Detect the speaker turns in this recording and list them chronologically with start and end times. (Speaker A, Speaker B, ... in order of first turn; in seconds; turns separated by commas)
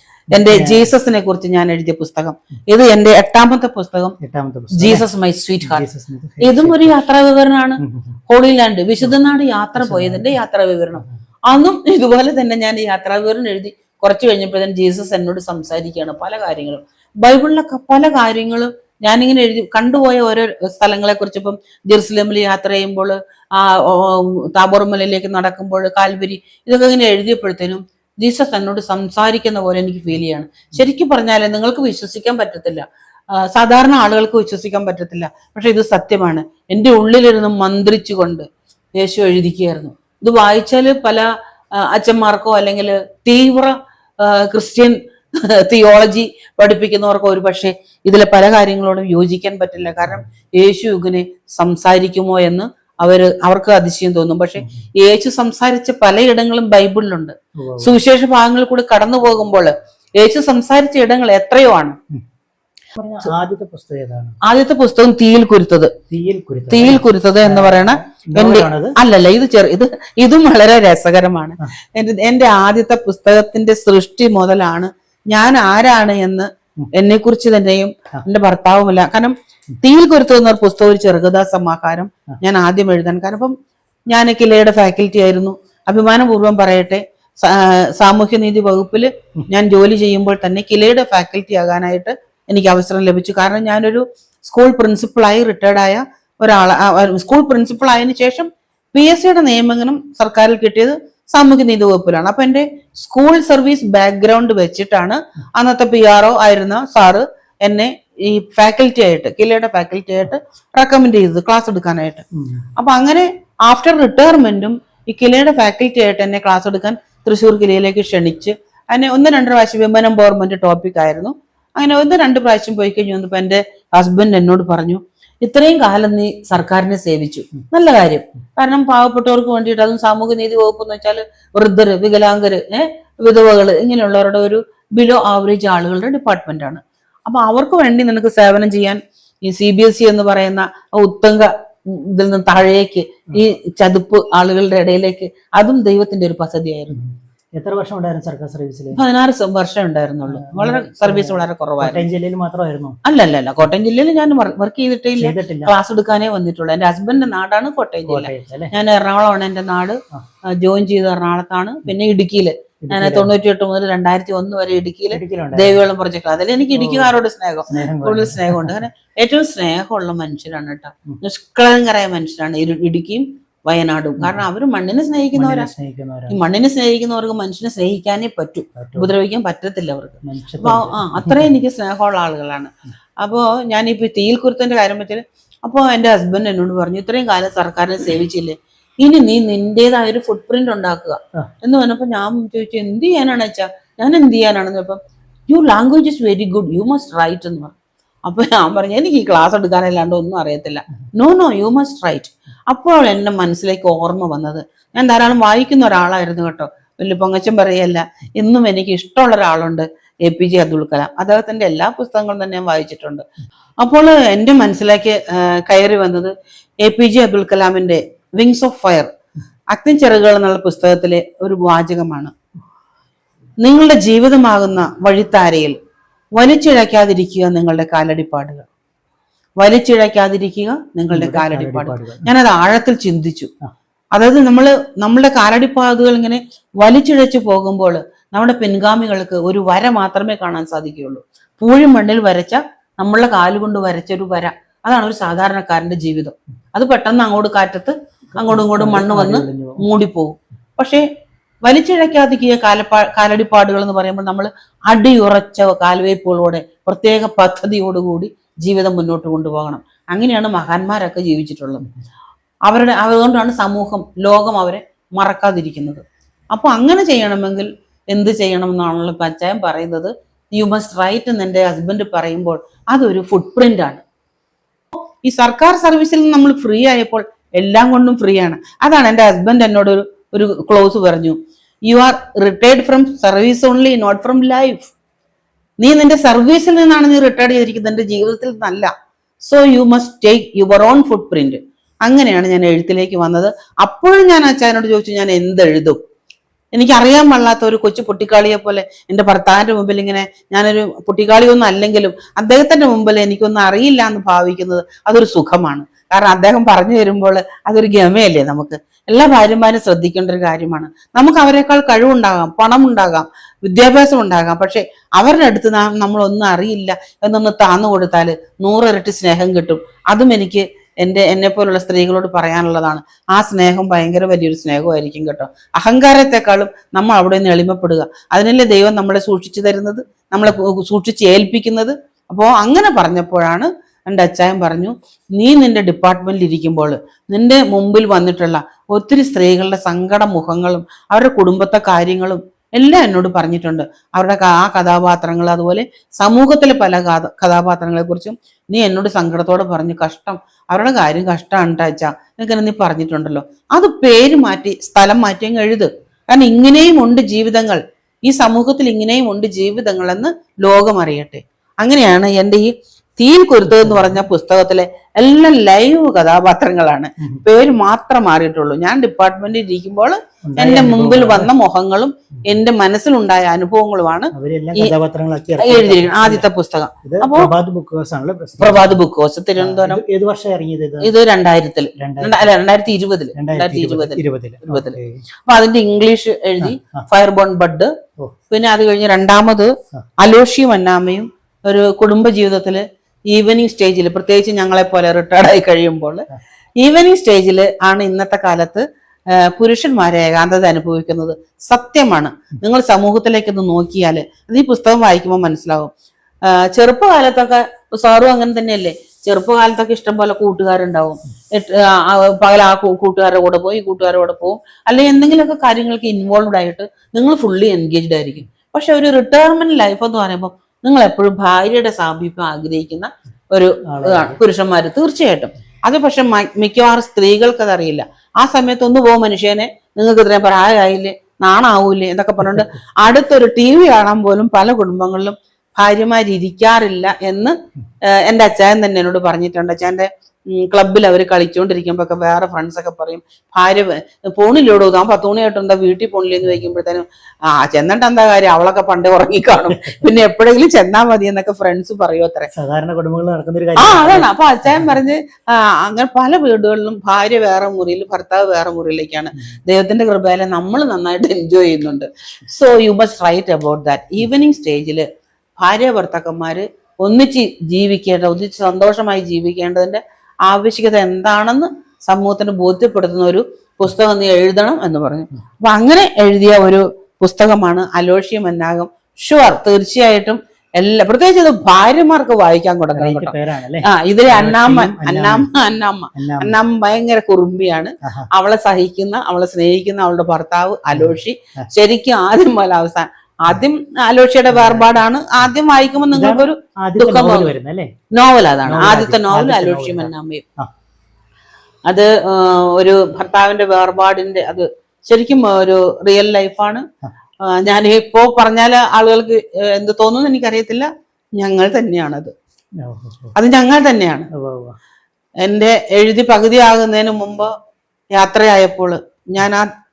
Speaker A: 0.3-4.2, Speaker B: 0.3-0.9, Speaker B: 4.2-5.0, Speaker A: 4.7-5.8, Speaker B: 5.6-7.0, Speaker A: 6.4-32.9, Speaker B: 7.8-8.2, Speaker B: 9.8-10.3, Speaker A: 33.4-38.5, Speaker A: 39.0-62.0, Speaker B: 54.6-54.8, Speaker B: 57.6-58.0, Speaker B: 63.0-64.4, Speaker A: 64.4-65.9, Speaker B: 66.1-69.0, Speaker A: 66.7-83.5, Speaker A: 84.1-112.2, Speaker B: 112.3-112.7, Speaker A: 112.8-146.9, Speaker B: 146.9-149.0, Speaker A: 148.9-152.1, Speaker B: 150.3-153.0, Speaker A: 153.0-160.0, Speaker B: 155.2-155.7, Speaker B: 158.1-158.7, Speaker A: 160.6-175.7, Speaker B: 162.8-163.3, Speaker B: 165.1-165.8, Speaker B: 166.8-167.2, Speaker B: 167.7-168.8, Speaker B: 174.2-174.4, Speaker B: 175.4-176.4, Speaker A: 176.3-197.8, Speaker B: 178.8-179.1, Speaker B: 180.2-181.5, Speaker A: 198.3-213.2, Speaker A: 213.8-216.3, Speaker A: 216.8-219.1, Speaker A: 219.7-222.3, Speaker A: 223.6-225.8, Speaker A: 226.4-228.7, Speaker A: 229.6-233.5, Speaker B: 231.1-232.3, Speaker A: 234.1-251.0, Speaker B: 248.4-249.8, Speaker A: 251.6-261.9, Speaker A: 262.7-274.0, Speaker A: 275.2-284.9, Speaker A: 285.8-288.9, Speaker A: 289.5-296.0, Speaker A: 296.7-374.9, Speaker B: 363.7-364.2, Speaker B: 370.5-371.5, Speaker B: 374.3-376.5, Speaker A: 375.6-377.5, Speaker B: 377.0-379.0, Speaker A: 378.6-380.0, Speaker B: 379.6-381.1, Speaker A: 381.0-387.9, Speaker B: 382.0-382.5, Speaker B: 383.4-385.2, Speaker B: 386.6-387.0, Speaker A: 388.5-396.3, Speaker A: 396.8-398.8, Speaker A: 399.4-405.9, Speaker A: 406.5-437.6, Speaker B: 423.9-424.4, Speaker A: 438.2-452.5, Speaker B: 452.5-454.9, Speaker A: 453.8-465.1, Speaker A: 465.6-497.5, Speaker B: 482.9-485.5, Speaker B: 486.1-486.6, Speaker B: 490.9-491.7, Speaker B: 494.5-495.5, Speaker B: 496.1-497.9, Speaker A: 498.1-500.4, Speaker B: 498.6-500.7, Speaker A: 501.9-506.8, Speaker A: 507.4-512.3, Speaker B: 512.8-513.4, Speaker A: 513.4-514.3, Speaker B: 514.3-514.8, Speaker A: 515.4-517.5, Speaker A: 518.1-519.7